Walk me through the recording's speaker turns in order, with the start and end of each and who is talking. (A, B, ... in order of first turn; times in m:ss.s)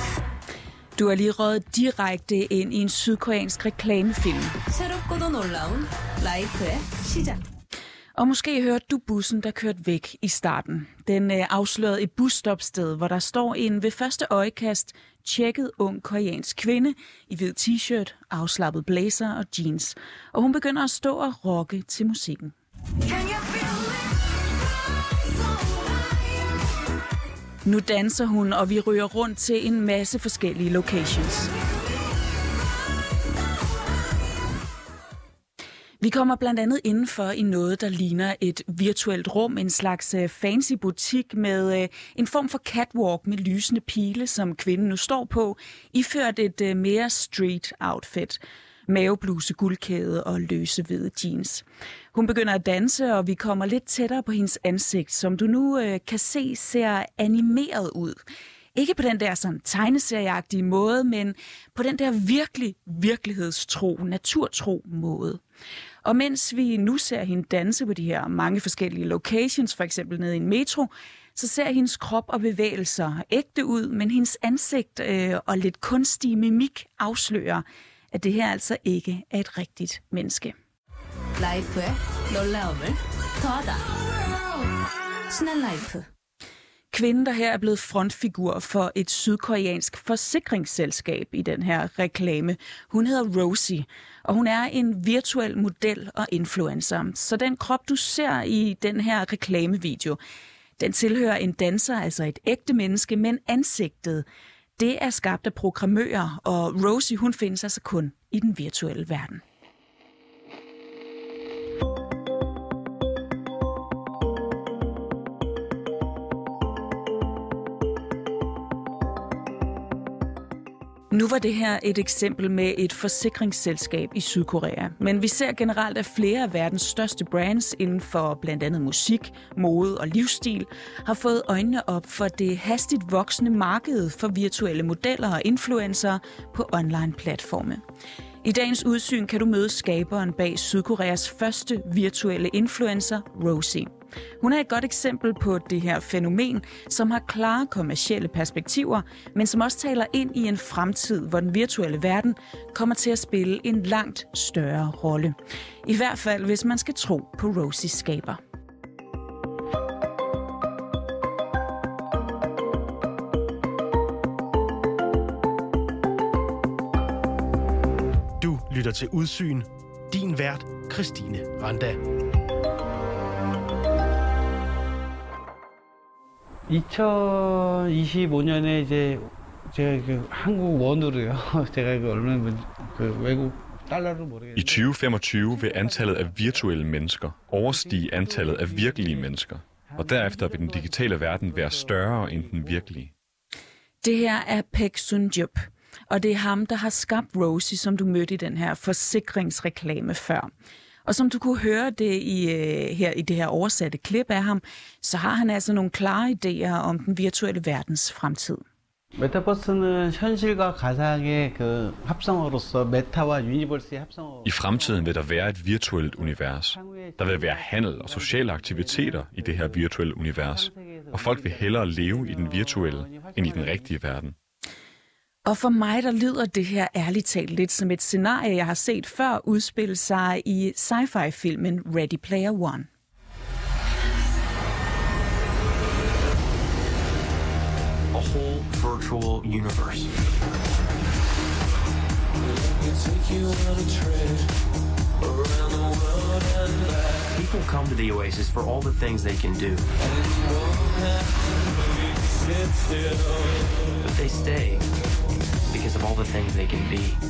0:01.0-0:04.5 A
0:04.7-0:07.4 B
0:08.1-0:22.5 A
0:27.6-0:31.5 A
0:36.0-0:58.2 A
0:58.7-1:05.4 A
1:06.0-1:20.5 A
1:21.4-1:23.8 B
1:25.3-1:26.0 B
1:26.9-1:40.2 A
1:40.8-1:44.2 A
1:44.8-1:49.4 A
2:01.1-2:17.8 A
2:18.4-2:23.9 A
2:24.4-2:38.4 A
2:48.4-2:52.0 C
2:56.7-3:06.8 D
3:04.5-3:13.1 E
3:07.7-3:12.9 D
3:14.0-3:15.6 A
3:16.1-3:20.5 A
3:21.0-3:28.6 A
3:29.2-3:35.5 D
3:34.4-3:44.3 E
3:36.1-3:44.0 D
3:45.4-3:52.9 A
3:58.1-4:00.1 F
4:02.7-4:04.4 F
4:05.2-4:11.3 F
4:12.4-4:14.9 F
4:15.7-4:17.2 F